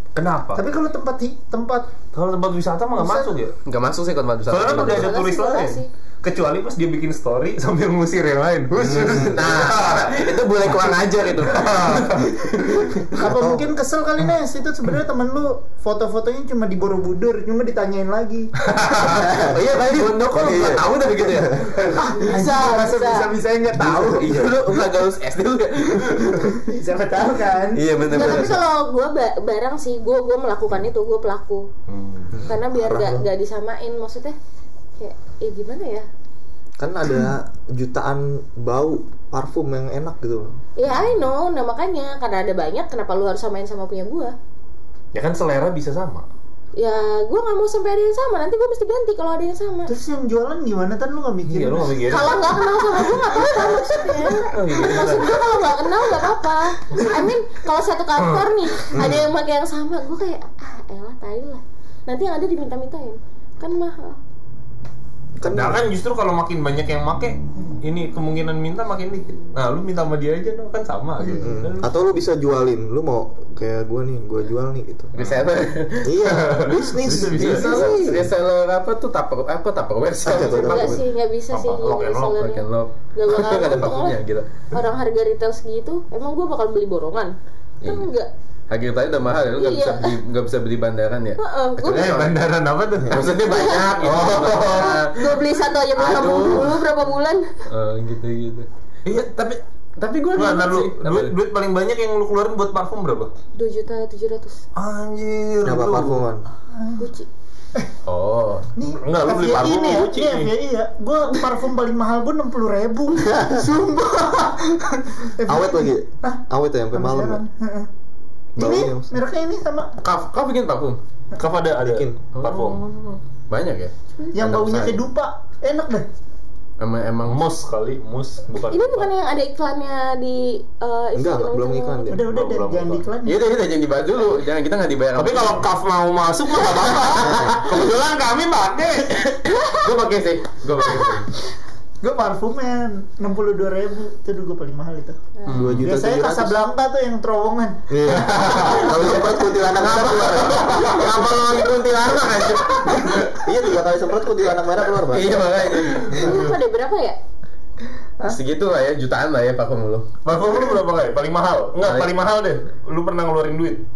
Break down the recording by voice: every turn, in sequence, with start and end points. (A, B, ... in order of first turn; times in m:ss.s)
0:00.2-0:00.6 A
0:00.6-0:01.9 B
0:02.1-0:03.6 A
0:03.0-0:03.3 B
0:03.6-0:05.2 C
0:04.5-0:12.4 A
0:04.7-0:05.9 D
0:08.7-0:09.5 E
0:09.2-0:13.0 C
0:13.1-0:18.5 B
0:13.2-0:13.7 E
0:18.7-0:19.2 A
0:19.1-0:21.8 E
0:19.1-0:22.0 C
0:21.9-0:24.5 B
0:22.1-0:23.3 D
0:23.8-0:24.8 E
0:24.0-0:26.8 C
0:26.7-0:28.4 B
0:27.7-0:28.6 C
0:28.1-0:31.7 D
0:31.9-0:32.3 A
0:32.3-0:33.3 E
0:32.5-0:34.4 D
0:35.0-0:36.1 D
0:36.8-0:40.6 E
0:40.8-0:44.4 D
0:45.1-0:46.3 A
0:46.8-0:49.9 D
0:49.9-0:52.6 B
0:51.5-0:52.6 A
0:52.1-1:04.2 D
0:54.4-0:55.4 A
0:58.2-0:59.2 A
1:05.4-1:05.9 E
1:05.4-1:12.0 A
1:11.3-1:15.2 E
1:15.2-1:16.2 C
1:16.0-1:18.3 E
1:16.2-1:18.1 A
1:17.2-1:21.0 C
1:20.2-1:21.0 E
1:20.4-1:28.3 D
1:21.5-1:22.4 A
1:22.4-1:24.5 C
1:27.8-1:28.1 C
1:28.7-1:32.4 C
1:29.6-1:30.2 D
1:31.4-1:32.2 D
1:31.9-1:33.4 A
1:33.1-1:35.4 C
1:33.2-1:34.0 D
1:34.0-1:35.1 A
1:34.5-1:37.5 D
1:36.0-1:36.8 C
1:37.7-1:38.7 C
1:39.0-1:39.6 A
1:40.0-1:41.3 C
1:40.4-1:43.3 A
1:43.6-1:44.6 D
1:44.8-1:46.2 A
1:45.6-1:46.5 E
1:46.7-1:47.0 B
1:47.0-1:47.3 D
1:48.1-1:48.7 C
1:48.8-1:56.4 B
1:49.0-1:50.5 A
1:53.3-1:53.7 E
1:55.5-1:57.4 E
1:56.9-1:57.9 B
1:58.6-1:59.2 E
1:58.6-2:00.0 B
2:00.0-2:01.0 C
2:01.4-2:02.8 A
2:01.8-2:02.2 E
2:02.4-2:05.0 C
2:04.3-2:06.1 B
2:06.8-2:07.4 C
2:07.2-2:09.1 A
2:08.7-2:12.2 D
2:11.2-2:12.2 E
2:12.1-2:13.5 B
2:12.3-2:13.1 A
2:13.2-2:15.6 C
2:15.2-2:19.3 A
2:17.2-2:17.6 E
2:19.2-2:21.3 C
2:19.4-2:19.9 D
2:22.0-2:25.2 B
2:25.4-2:25.7 D
2:25.5-2:25.9 C
2:25.5-2:26.6 E
2:25.8-2:28.5 B
2:27.9-2:30.7 E
2:28.1-2:29.1 A
2:28.6-2:33.5 C
2:29.6-2:33.1 A
2:33.2-2:35.3 E
2:34.8-2:36.4 C
2:36.1-2:37.2 D
2:38.2-2:40.1 C
2:40.2-2:43.8 A
2:41.8-2:42.1 C